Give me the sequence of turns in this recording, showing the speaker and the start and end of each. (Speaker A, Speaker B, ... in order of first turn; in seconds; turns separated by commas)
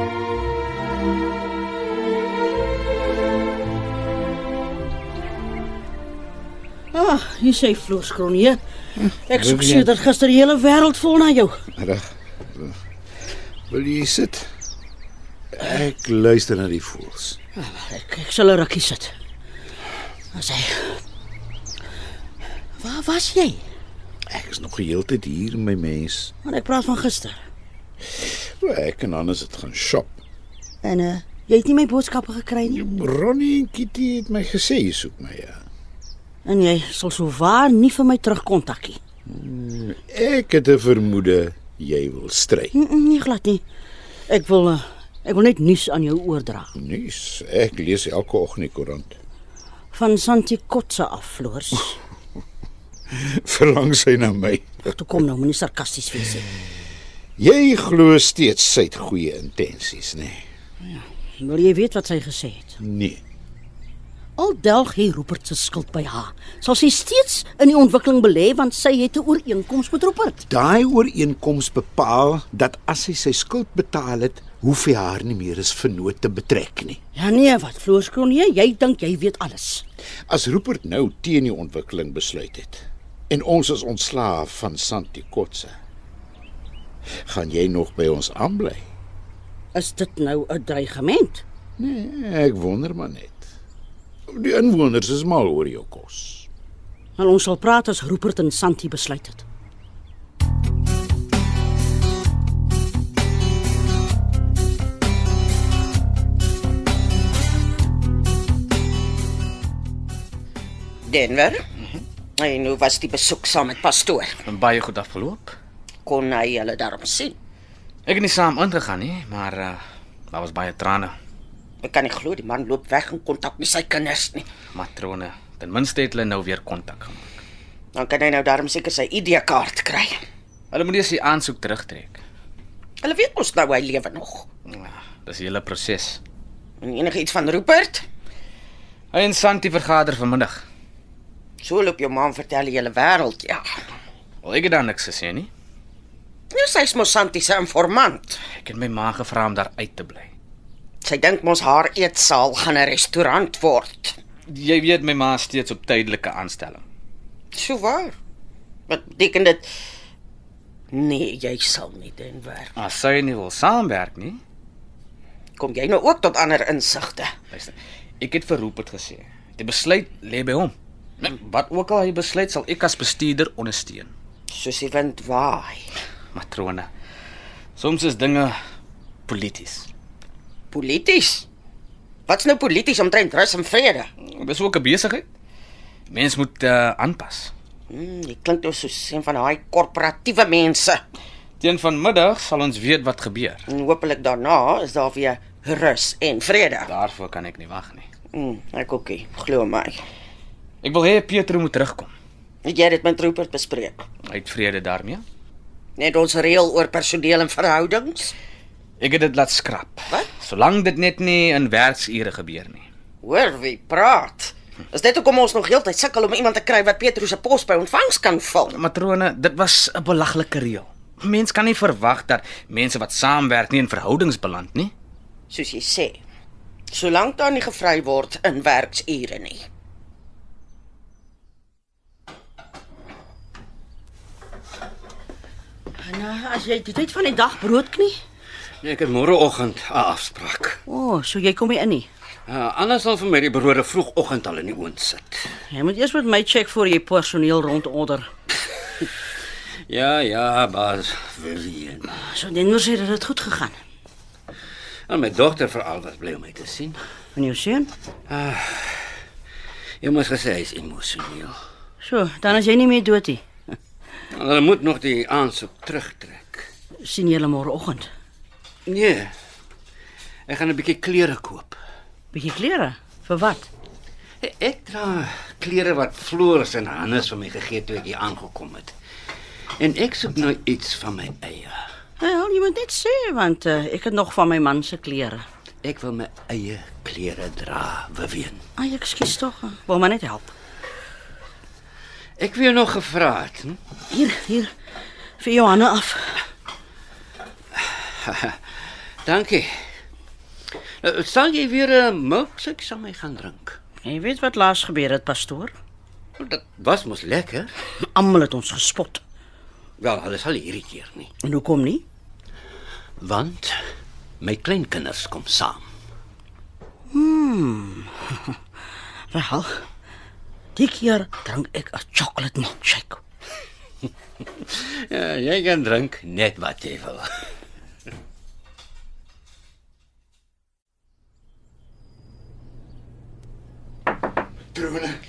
Speaker A: 6.9-8.6, Speaker B: 9.0-9.9, Speaker A: 9.3-11.6, Speaker B: 11.8-12.7, Speaker B: 13.7-14.5, Speaker B: 15.5-17.4, Speaker A: 17.6-19.1, Speaker A: 20.3-21.0, Speaker A: 22.8-23.6, Speaker B: 24.3-26.3, Speaker A: 26.4-27.4, Speaker B: 28.3-30.2, Speaker A: 30.8-32.9, Speaker B: 32.6-35.6, Speaker A: 36.5-39.0, Speaker B: 39.3-42.7, Speaker A: 42.7-43.6, Speaker A: 44.3-46.7, Speaker B: 46.8-49.2, Speaker A: 49.9-52.0, Speaker B: 53.1-54.8, Speaker A: 54.9-56.5, Speaker B: 57.4-60.4, Speaker A: 60.8-62.8, Speaker B: 62.8-63.2, Speaker A: 64.4-70.5, Speaker B: 70.5-77.0, Speaker A: 77.2-79.8, Speaker B: 80.3-85.8, Speaker B: 87.2-88.9, Speaker A: 89.7-91.4, Speaker B: 91.8-93.5, Speaker B: 94.3-96.5, Speaker A: 97.2-99.4, Speaker C: 111.1-111.6, Speaker C: 112.4-114.4, Speaker D: 114.5-115.5, Speaker C: 116.0-117.3, Speaker D: 118.1-119.8, Speaker D: 120.3-121.1, Speaker C: 121.8-124.5, Speaker D: 124.7-127.4, Speaker C: 128.0-130.2, Speaker D: 130.7-132.2, Speaker C: 133.0-134.5, Speaker D: 134.7-136.2, Speaker C: 136.8-138.0, Speaker D: 139.1-140.6, Speaker C: 141.6-143.6, Speaker D: 144.4-145.5, Speaker C: 146.5-148.4, Speaker D: 148.6-150.3, Speaker C: 151.0-154.2, Speaker D: 154.5-156.8, Speaker C: 157.5-158.1, Speaker C: 158.9-159.7, Speaker C: 160.9-162.7, Speaker D: 162.8-164.4, Speaker C: 165.6-167.3, Speaker D: 167.5-174.1, Speaker C: 174.5-175.8, Speaker D: 176.3-176.9, Speaker D: 177.8-178.6, Speaker D: 179.3-179.9, Speaker C: 180.7-181.5, Speaker C: 182.3-184.1, Speaker D: 184.2-185.3, Speaker D: 186.1-187.5, Speaker C: 187.9-191.0, Speaker D: 191.6-193.6, Speaker C: 193.7-196.9, Speaker D: 196.9-198.1, Speaker C: 198.3-200.0, Speaker D: 200.8-202.1, Speaker C: 202.6-204.1, Speaker D: 204.3-205.2, Speaker C: 206.0-208.3, Speaker D: 209.0-212.9, Speaker C: 213.2-218.8, Speaker D: 218.7-224.9, Speaker C: 225.5-226.2, Speaker C: 226.9-229.6, Speaker A: 236.0-238.2, Speaker E: 238.8-240.8, Speaker A: 240.9-242.1, Speaker E: 242.5-245.5, Speaker A: 245.7-248.3, Speaker E: 249.9-252.2, Speaker A: 252.2-253.8, Speaker E: 255.1-257.0, Speaker A: 257.4-257.9, Speaker E: 258.3-259.1, Speaker E: 260.0-261.6, Speaker A: 262.0-263.4, Speaker E: 264.3-266.7, Speaker A: 267.0-268.1, Speaker E: 268.9-269.3, Speaker E: 270.5-271.8, Speaker A: 272.3-273.7, Speaker E: 274.4-278.9, Speaker E: 279.8-281.8, Speaker A: 282.2-285.4, Speaker E: 285.8-288.6, Speaker A: 288.8-290.5, Speaker E: 292.4-293.8, Speaker A: 294.1-294.7, Speaker A: 295.4-296.4, Speaker E: 297.8-298.6, Speaker E: 299.2-299.7, Speaker E: 301.0-303.8, Speaker A: 304.0-305.7, Speaker E: 306.4-307.7, Speaker A: 308.0-309.2, Speaker E: 310.0-311.3, Speaker A: 311.4-312.0, Speaker E: 313.2-313.8, Speaker E: 314.4-315.9, Speaker A: 317.1-318.5, Speaker A: 319.3-319.8, Speaker A: 320.8-323.2, Speaker E: 324.6-327.3, Speaker B: 334.7-335.2